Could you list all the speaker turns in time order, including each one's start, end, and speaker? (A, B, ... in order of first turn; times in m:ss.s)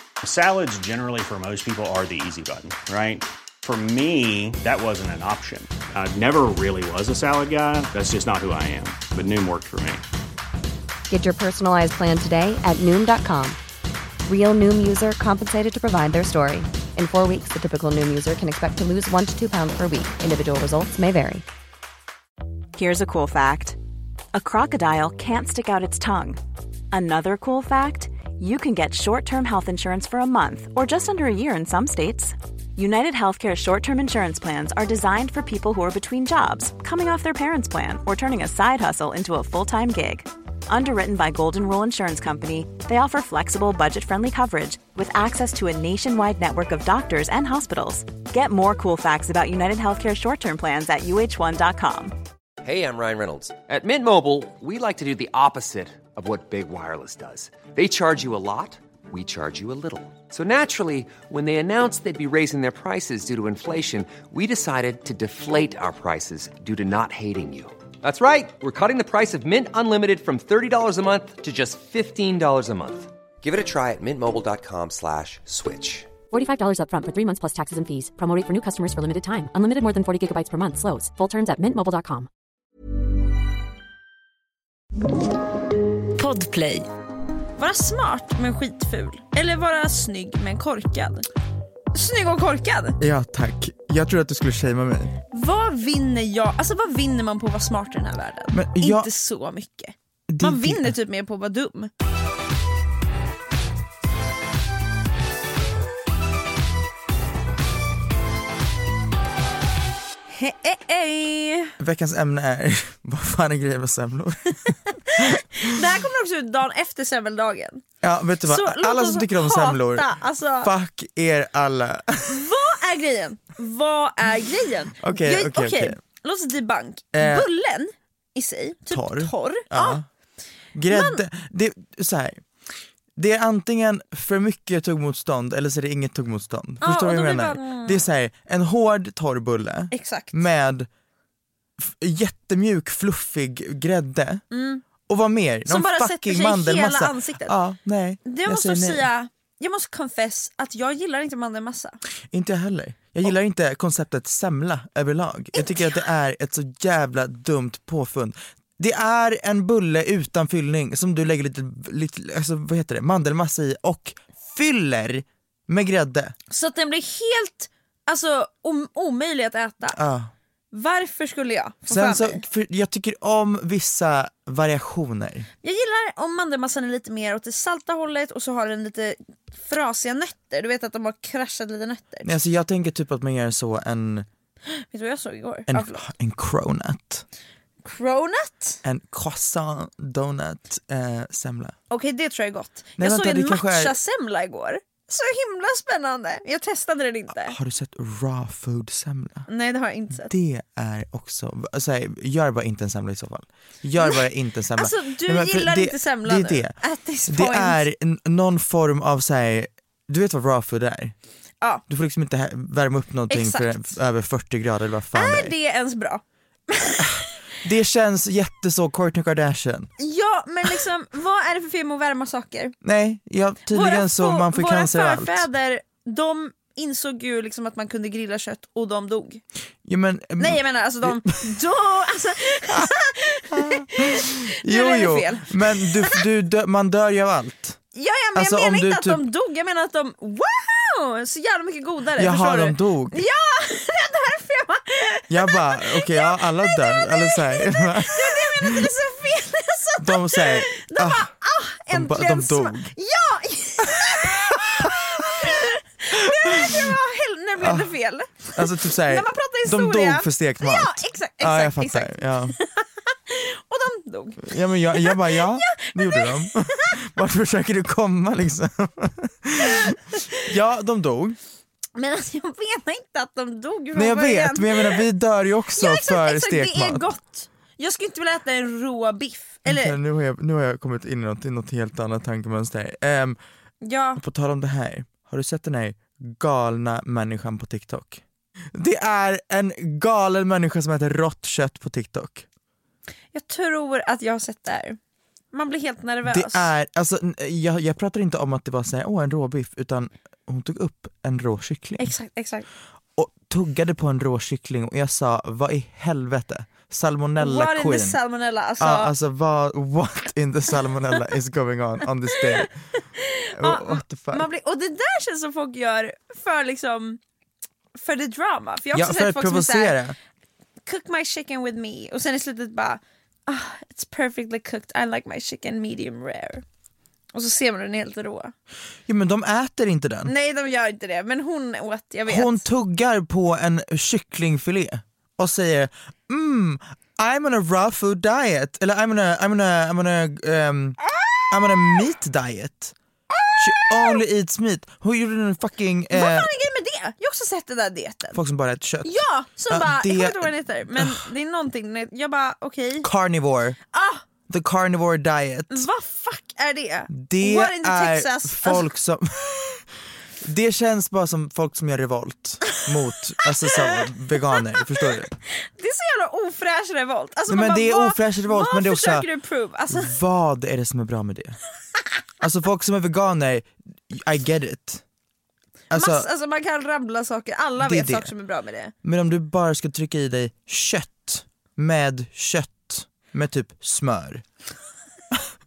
0:00.2-0:10.0 A
0:11.1-0:13.6 B
0:14.2-0:21.4 B
0:22.8-0:23.8 C
0:24.3-0:26.4 C
0:26.9-0:52.2 C
0:52.6-1:16.1 D
1:16.3-1:22.3 E
1:26.2-1:26.8 C
1:27.6-1:31.3 F
1:31.9-1:33.0 F
1:33.0-1:35.1 G
1:35.3-1:41.9 F
1:38.5-1:39.1 G
1:40.3-1:41.0 G
1:50.3-1:51.7 F
1:51.8-1:55.7 G
1:55.0-1:57.8 F
1:58.0-2:02.5 G
1:58.4-2:00.7 F
2:02.3-2:10.0 F
2:05.0-2:06.0 G
2:07.1-2:07.5 G
2:08.9-2:10.1 G
2:10.7-2:12.4 G
2:10.9-2:11.2 F
2:13.2-2:20.9 G
2:16.8-2:18.1 F
2:19.9-2:20.4 F
2:21.8-2:24.4 G
2:24.5-2:24.8 F
2:25.1-2:29.1 G
2:25.7-2:27.6 F
2:28.2-2:32.0 F
2:32.3-2:46.3 G
2:35.5-2:36.1 F
2:46.5-2:50.0 F
2:49.9-2:50.3 G
2:50.7-2:52.4 F
2:51.9-2:55.5 G
2:55.6-3:02.3 F
3:02.2-3:04.3 G
3:04.7-3:06.1 F
3:05.7-3:07.2 G
3:07.8-3:08.8 F
3:08.8-3:11.8 G
3:11.9-3:17.6 F
3:13.0-3:14.0 G
3:17.3-3:19.5 G
3:19.5-3:20.3 F
3:20.1-3:31.2 G
3:24.8-3:27.8 F
3:31.9-3:35.5 G
3:33.3-3:33.9 F
3:35.1-3:37.3 F
3:37.0-3:39.9 G
3:40.0-3:42.8 F
3:42.8-3:45.5 G
3:43.7-3:49.4 F
3:49.8-3:51.4 G
3:50.4-3:56.2 F
3:53.5-3:57.8 G
3:57.9-4:27.0 F
3:58.4-3:59.2 G
4:02.2-4:03.2 G
4:05.3-4:08.9 G
4:10.0-4:11.3 G
4:11.9-4:12.9 G
4:13.8-4:15.6 G
4:16.1-4:17.0 G
4:17.6-4:17.9 G
4:18.5-4:22.6 G
4:24.4-4:31.4 G
4:32.0-4:35.0 F
4:34.0-4:37.1 G
4:35.8-4:40.0 F
4:39.7-4:43.4 G
4:43.8-4:44.2 F
4:44.2-4:48.2 G
4:48.7-4:52.5 G
4:53.3-4:55.0 F
4:55.5-4:56.7 F
4:56.2-5:02.1 G
5:02.0-5:02.7 F
5:03.2-5:08.2 G
5:07.4-5:09.1 F
5:08.8-5:12.7 G
5:12.4-5:17.2 F
5:13.6-5:14.5 G
5:18.0-5:20.0 F
5:18.9-5:20.2 G
5:20.8-5:26.6 F
5:27.3-5:28.5 F
5:29.1-5:30.3 G
5:30.3-5:32.6 F
5:32.3-5:41.0 G
5:41.5-5:43.0 G
5:43.4-5:44.2 F
5:43.6-5:46.5 G
5:46.1-5:48.4 F
5:48.3-5:49.2 G
5:49.0-5:53.1 F
5:49.7-5:51.3 G
5:53.0-5:53.8 G
5:53.9-5:54.2 F
5:54.5-5:55.9 G
5:55.7-5:58.9 F
5:57.1-5:59.9 G
6:00.4-6:05.3 G
6:03.6-6:04.8 F
6:05.5-6:10.2 F
6:07.5-6:09.3 G
6:09.9-6:11.6 G
6:12.4-6:15.0 G
6:15.9-6:16.3 G
6:15.9-6:18.9 F
6:17.8-6:18.3 G
6:19.0-6:24.4 G